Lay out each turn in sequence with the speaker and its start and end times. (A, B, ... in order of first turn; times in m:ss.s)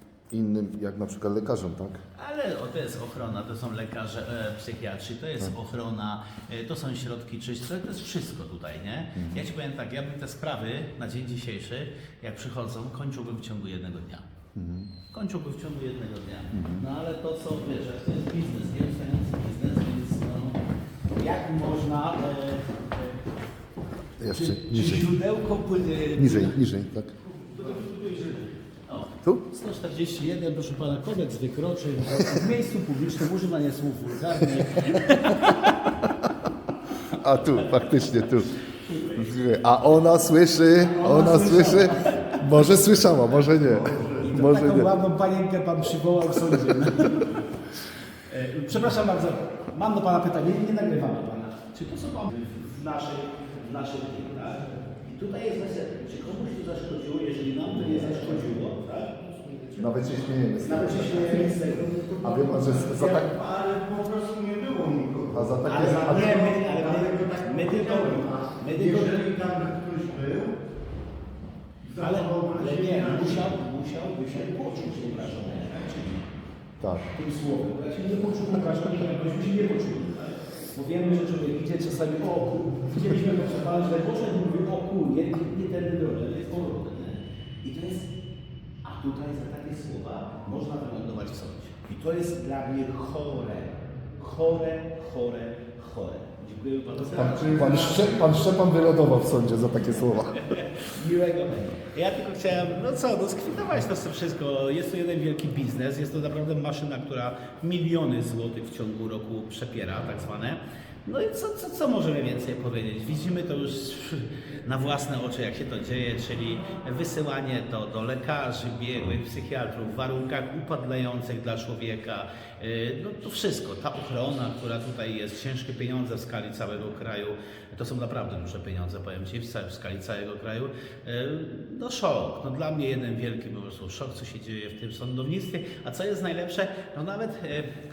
0:00.3-0:02.0 A
0:02.2-0:14.2 B
0:09.2-0:09.4 A
0:14.5-0:14.9 A
0:15.1-0:20.6 B
0:16.5-0:16.8 A
0:21.2-0:23.2 B
0:24.2-0:25.2 A
0:24.3-0:26.6 B
0:26.1-0:27.1 A
0:27.5-0:28.3 B
0:27.5-0:28.4 C
0:28.9-0:35.9 B
0:37.1-0:38.5 A
0:38.8-0:39.3 B
0:39.1-0:45.0 A
0:40.8-0:42.4 B
0:43.6-0:44.2 C
0:44.2-0:47.4 B
0:48.1-0:59.2 B
0:57.6-0:58.2 A
0:59.8-1:01.4 A
1:00.6-1:01.9 B
1:01.0-1:10.6 C
1:02.2-1:03.3 A
1:05.3-1:06.5 A
1:05.6-1:09.2 B
1:11.8-1:13.5 C
1:12.0-1:16.3 B
1:16.8-1:17.1 A
1:17.1-1:28.1 B
1:28.8-1:38.3 B
1:37.0-1:40.6 A
1:40.5-2:17.7 B